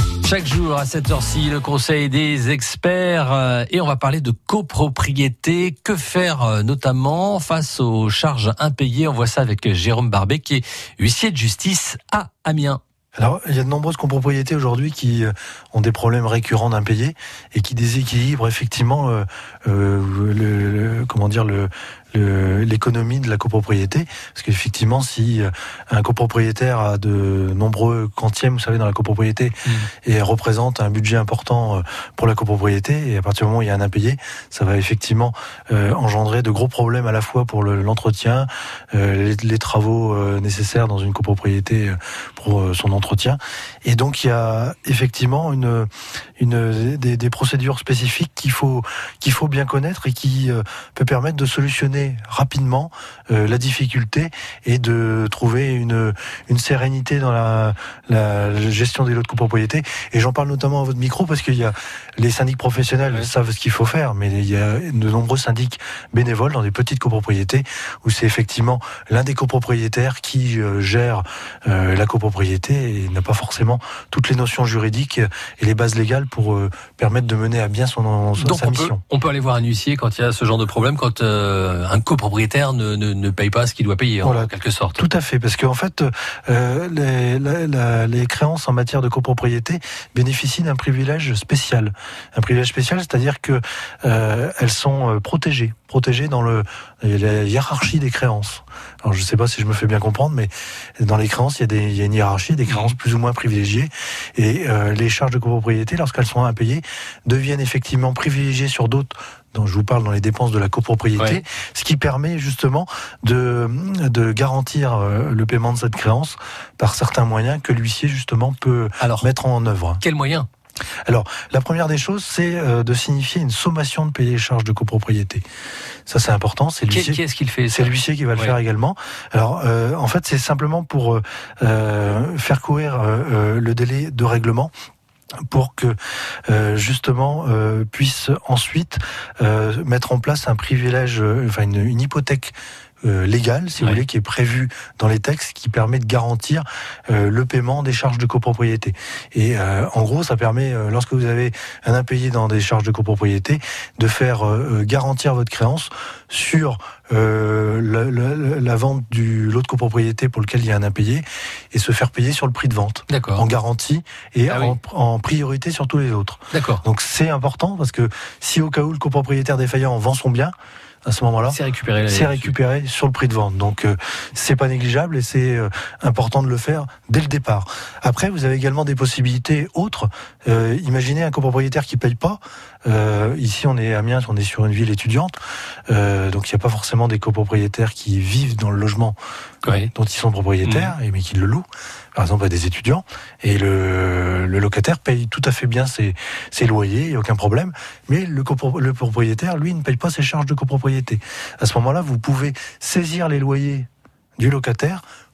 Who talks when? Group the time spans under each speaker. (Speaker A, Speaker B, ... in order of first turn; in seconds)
Speaker A: 0.2-12.8, 78.4-85.0, 102.7-102.9, 119.0-119.3, 120.0-120.5, 126.9-128.6, 163.1-163.5, 164.5-164.8, 166.5-166.8, 171.5-172.5, 189.6-189.9, 190.6-190.9
Speaker B: 13.2-29.5, 30.0-79.0, 84.2-120.0, 121.1-125.4, 126.1-134.7, 135.5-136.0, 136.5-170.5, 171.1-185.4, 185.9-189.2, 189.9-205.0